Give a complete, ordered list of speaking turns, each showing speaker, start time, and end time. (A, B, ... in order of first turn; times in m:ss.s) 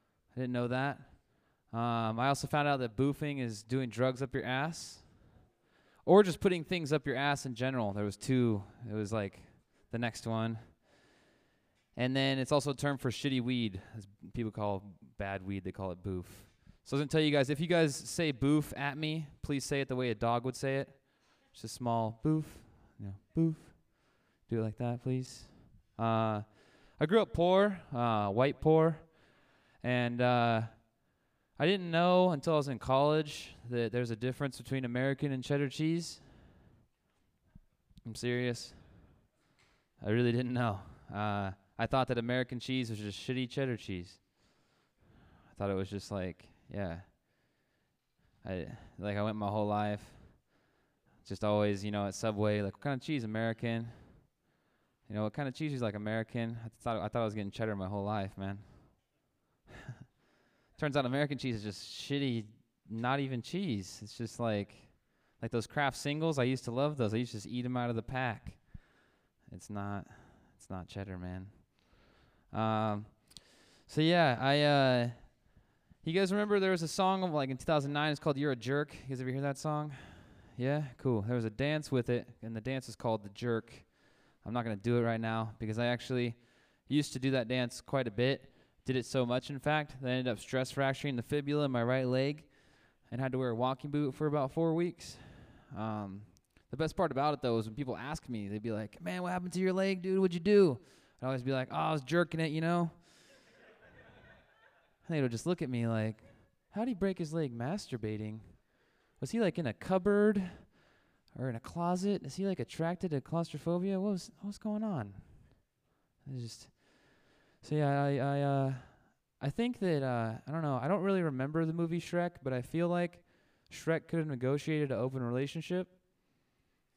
0:00.3-0:05.4 A
0:06.0-0:10.8 A
0:12.0-0:29.3 A
0:29.8-0:36.4 A
0:38.0-0:39.2 A
0:40.0-0:44.3 A
0:45.5-0:47.2 A
0:48.4-0:50.7 A
0:51.2-0:54.4 A
0:55.1-0:59.0 A
1:00.8-1:09.0 A
1:09.5-1:43.1 A
1:45.0-1:50.8 A
1:51.3-1:55.7 A
1:56.2-2:06.0 A